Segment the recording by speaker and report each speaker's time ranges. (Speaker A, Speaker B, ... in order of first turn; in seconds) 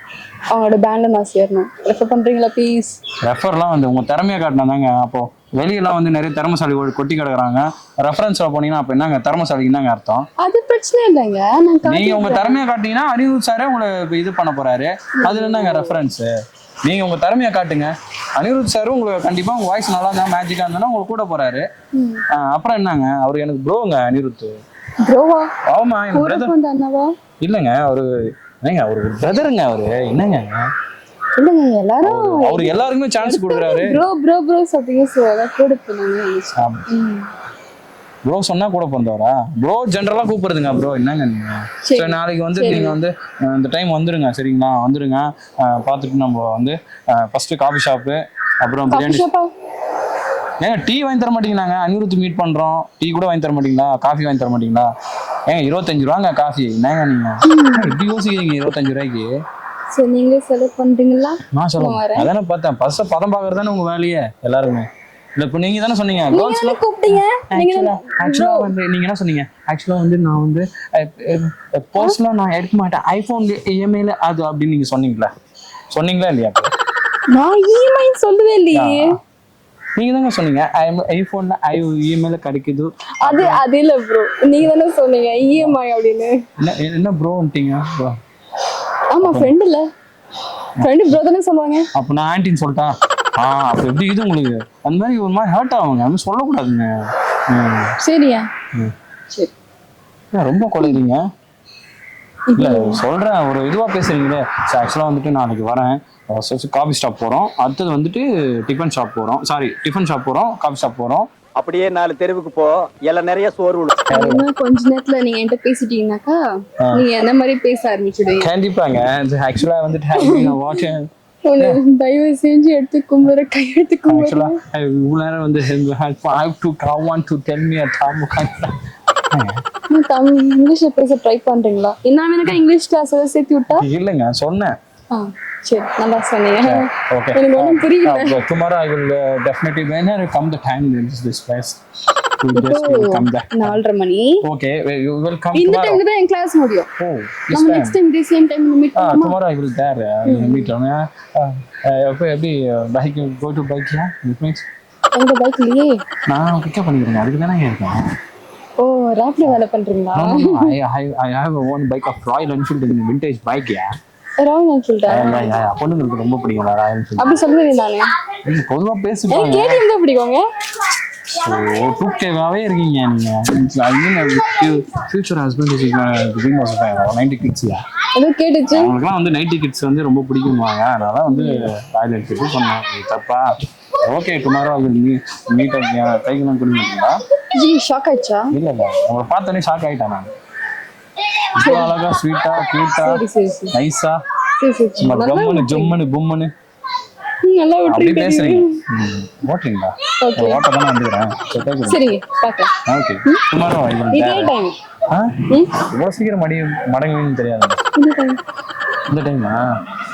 Speaker A: 0.5-3.0, 10.4-12.6, 15.2-16.0, 21.9-22.2, 25.0-25.5, 26.1-27.1, 31.4-37.3, 41.9-43.0, 48.9-49.5, 57.5-58.0, 59.9-62.3, 66.3-68.7, 77.3-79.1, 83.2-86.3, 89.1-89.8, 90.8-91.8, 98.0-98.5, 102.5-103.0, 114.1-116.4, 116.9-118.5, 120.2-120.8, 121.5-124.5, 129.9-133.8, 135.1-138.3, 142.5-144.4, 145.5-146.9, 147.5-149.3, 150.2-150.7, 155.1-156.0, 158.8-160.7, 164.4-165.6, 167.2-168.0, 169.3-170.4, 178.2-178.9, 181.3-181.6, 187.5-188.5, 191.6-191.9, 193.0-193.7, 194.6-196.0, 197.4-198.7, 200.2-200.6, 201.8-202.7, 204.1-204.8, 207.9-208.4
Speaker B: 3.2-10.2, 11.8-16.3, 16.8-21.6, 22.3-24.5, 25.7-26.5, 27.4-28.1, 28.6-30.7, 32.0-34.0, 36.6-36.8, 38.2-49.2, 50.6-54.9, 55.5-59.3, 61.5-75.3, 75.9-76.7, 78.7-79.0, 80.0-83.6, 86.6-88.2, 89.2-89.5, 91.9-97.9, 100.3-101.2, 102.5-111.3, 114.1-114.4, 118.4-121.1, 124.1-128.7, 129.3-129.6, 133.7-134.8, 136.6-141.8, 142.4-143.8, 144.4-146.0, 147.0-147.9, 148.9-154.7, 156.3-158.0, 160.1-163.9, 165.1-167.4, 168.4-169.8, 171.3-177.8, 178.7-183.5, 184.1-187.2, 188.5-190.3, 191.5-193.2, 193.7-194.2, 195.0-196.5, 197.8-202.0, 202.8-204.5, 205.1-207.8, 209.1-209.6
Speaker C: 111.5-113.9